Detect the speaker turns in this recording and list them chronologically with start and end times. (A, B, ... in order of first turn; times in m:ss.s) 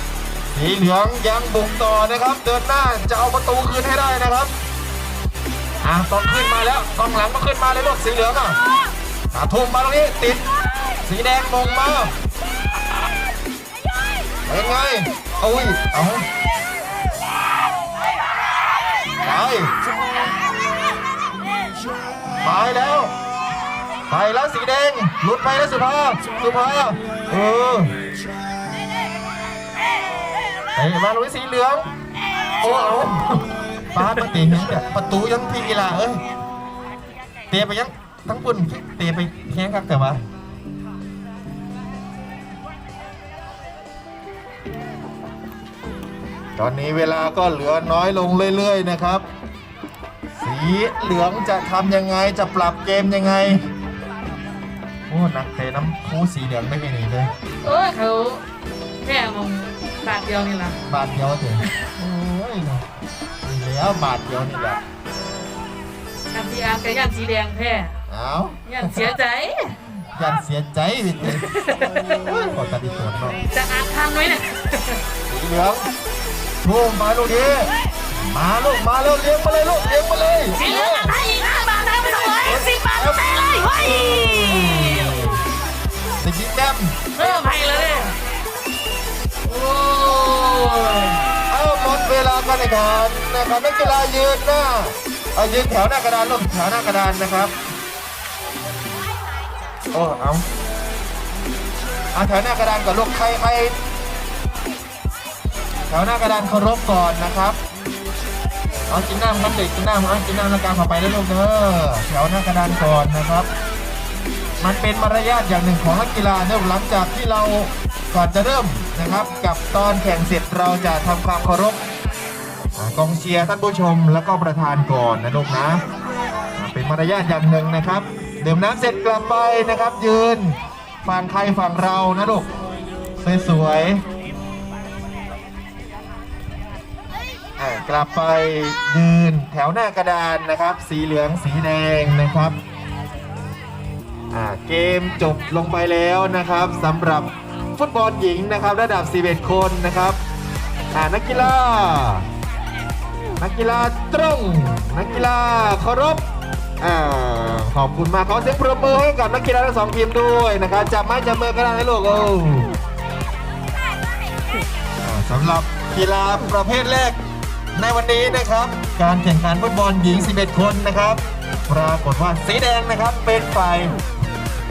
0:00.5-0:04.5 A
0:05.8-0:08.6 A
0:09.3-0:10.4 A
0:11.0-0:12.1 A
0:14.5-0:16.2 A
0:19.2-0:19.7 A
0:22.4-0:23.1 A
0:24.1-0:27.9 A
0:30.7-0:31.9 A
0:32.6-0:36.2 A
0:37.5-0:40.2 A
0:46.6-0:49.2 A
0:50.4-0:53.6 A
0:55.1-0:57.3 A
0:57.6-0:58.4 B
0:59.0-1:00.8 B
1:00.9-1:02.9 A
1:03.4-1:04.8 A
1:06.3-1:07.9 B
1:08.1-1:09.1 A
1:08.6-1:09.8 B
1:10.2-1:11.5 A
1:11.2-1:12.2 B
1:12.2-1:13.4 A
1:13.5-1:15.0 B
1:15.3-1:15.9 A
1:16.6-1:21.1 A
1:20.5-1:25.3 B
1:22.4-1:25.4 A
1:26.2-1:26.9 A
1:27.1-1:28.1 B
1:29.4-1:31.2 B
1:31.5-1:37.5 A
1:39.9-1:40.4 A
1:42.1-1:43.7 A
1:45.9-1:47.6 A
1:48.9-1:53.5 A
1:54.6-2:01.8 A
2:02.8-2:05.8 A
2:06.6-2:12.5 A
2:13.2-2:14.0 A
2:17.6-2:22.6 A
2:24.3-2:30.2 A
2:30.9-2:32.2 A
2:33.4-2:36.2 A
2:36.8-2:42.7 A
2:45.0-2:47.2 A
2:47.8-2:54.0 A